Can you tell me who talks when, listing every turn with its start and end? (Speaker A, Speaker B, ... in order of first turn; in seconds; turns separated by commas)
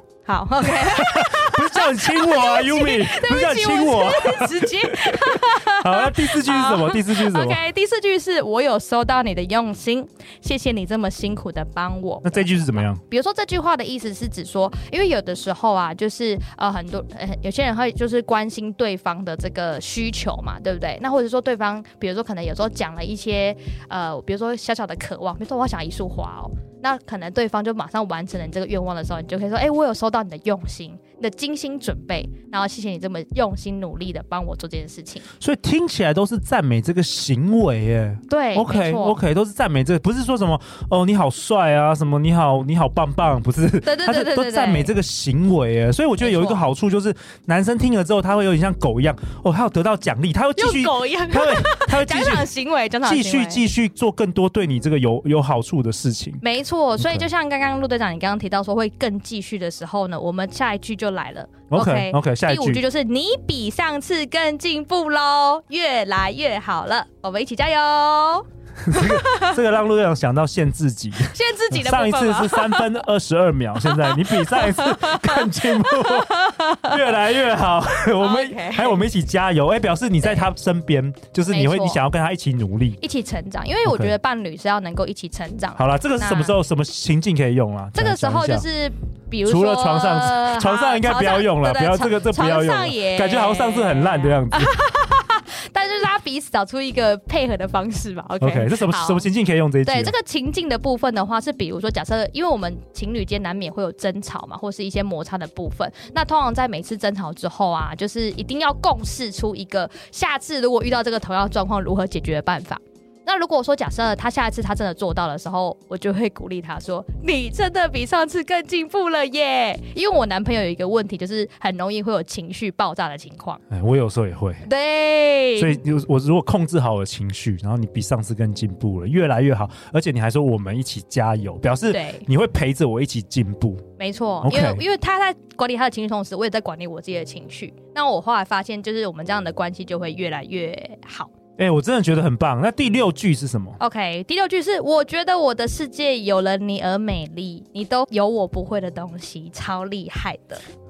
Speaker A: 0.2-35.3, Speaker B: 0.6-7.6, Speaker B: 12.2-13.0, Speaker B: 35.4-52.5, Speaker A: 38.3-39.2, Speaker A: 43.8-44.9, Speaker A: 46.2-46.6, Speaker A: 50.5-53.6, Speaker B: 53.0-56.4, Speaker A: 56.4-69.6, Speaker B: 57.0-57.3, Speaker B: 61.7-62.8, Speaker B: 68.8-83.0, Speaker A: 71.2-73.0, Speaker A: 73.8-77.0, Speaker A: 78.2-79.0, Speaker A: 81.5-82.0, Speaker A: 83.0-86.5, Speaker B: 83.8-84.1, Speaker B: 85.8-88.6, Speaker A: 87.9-99.3, Speaker B: 89.4-94.7, Speaker B: 98.4-100.1, Speaker A: 99.8-123.6, Speaker B: 123.7-124.7, Speaker A: 124.6-125.8, Speaker B: 125.5-133.8, Speaker A: 131.9-132.2, Speaker A: 134.0-141.3, Speaker B: 134.4-134.8, Speaker B: 141.6-143.8, Speaker A: 143.8-150.6